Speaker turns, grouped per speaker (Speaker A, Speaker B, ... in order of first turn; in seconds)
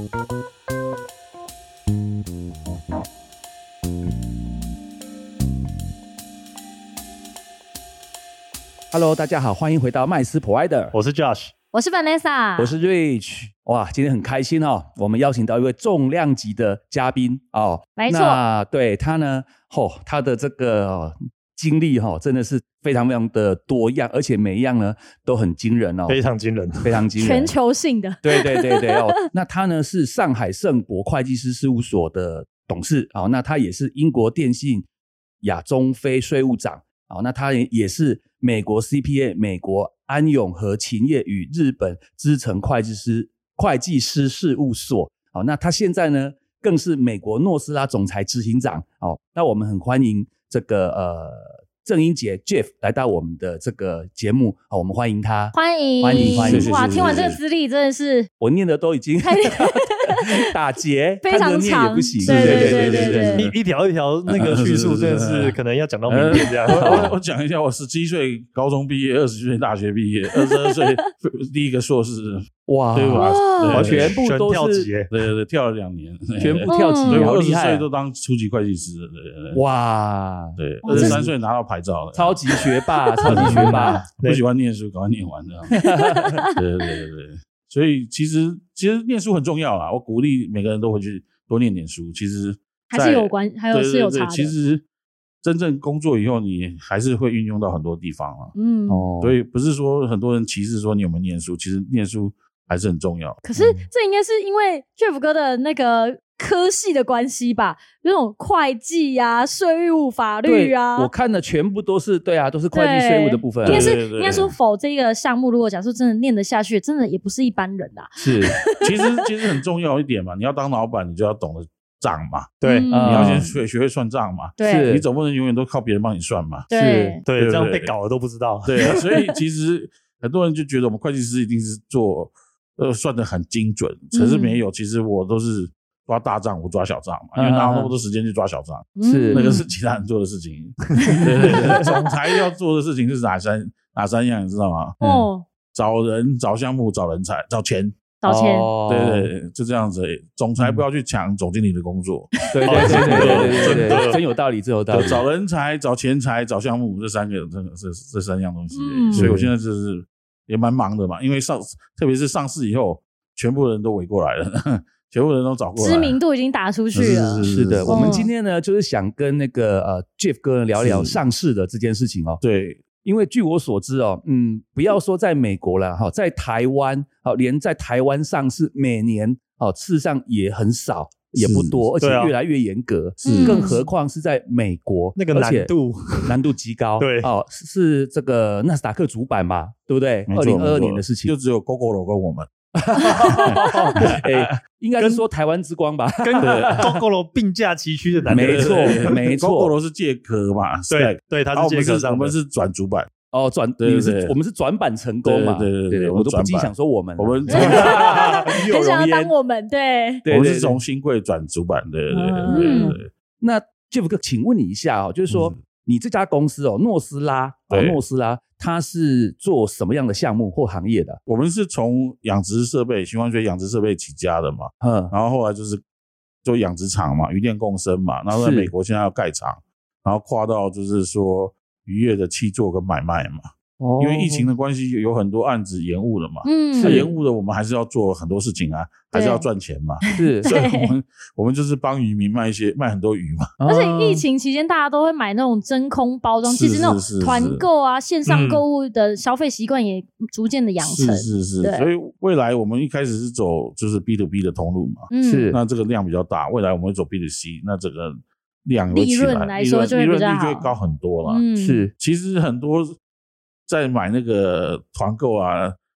Speaker A: 8.9-10.9, 12.6-26.2, 26.8-27.5, 28.2-34.9, 35.4-57.2, 58.4-63.5, 66.7-67.1, 72.7-74.9, 76.4-77.8, 79.5-81.3, 82.1-84.0, 85.7-86.3, 98.9-99.3, 103.5-103.8, 110.5-114.0, 118.2-118.6, 122.9-123.5, 124.6-125.0, 126.7-127.2, 137.4-137.9, 139.0-139.6, 141.4-141.8, 145.0-145.3, 148.2-149.3, 150.6-150.8, 152.5-155.2, 159.1-159.5, 167.4-172.4, 173.0-191.3, 192.8-197.0, 198.3-199.7, 203.3-209.3, 210.2-210.8, 212.5-221.2, 224.8-225.1, 228.3-228.7, 233.8-234.5, 236.8-237.1, 240.2-240.5, 243.6-244.2, 255.2-255.6, 261.6-261.9
Speaker B: 10.9-11.5, 26.1-27.0, 63.4-67.0, 73.6-75.1, 122.6-122.9, 127.2-128.9, 152.6-154.2, 182.0-182.3, 185.2-186.4, 187.0-187.3, 193.7-194.2, 195.0-195.2, 196.2-199.1, 200.9-202.3, 248.2-248.6
Speaker C: 11.7-12.7, 18.0-18.4, 27.2-29.1, 55.5-58.3, 59.2-60.2, 61.2-63.5, 70.3-70.9, 73.1-73.8, 76.7-77.3, 80.8-81.2, 83.2-84.0, 86.0-86.5, 92.9-94.5, 98.5-99.0, 103.4-111.1, 112.7-119.2, 122.6-123.5, 124.6-124.9, 126.7-127.2, 134.1-134.6, 139.0-139.7, 145.0-145.4, 148.2-148.7, 158.7-159.3, 165.8-168.3, 183.2-183.8, 207.5-210.2, 212.1-213.0, 236.4-237.1, 239.1-239.4, 240.1-240.9, 243.7-251.9, 255.1-255.5, 258.9-260.7, 261.2-261.8
Speaker D: 56.1-57.4, 62.2-63.5, 64.3-65.5, 66.1-74.2, 75.1-79.6, 80.6-82.4, 83.2-85.9, 86.4-94.8, 95.4-98.5, 99.2-103.4, 113.6-114.5, 118.8-126.7, 127.3-127.9, 128.6-145.0, 145.7-148.0, 148.9-154.1, 154.9-166.2, 166.9-168.3, 170.8-171.2, 172.4-172.8, 181.4-181.8, 183.2-183.8, 190.3-192.5, 193.1-194.3, 196.4-197.0, 198.3-203.1, 203.8-204.3, 205.2-208.3, 210.3-213.1, 215.3-215.6, 217.7-218.0, 221.2-225.8, 226.4-243.5, 246.4-247.7, 250.8-261.4, 261.9-263.0, 263.7-265.8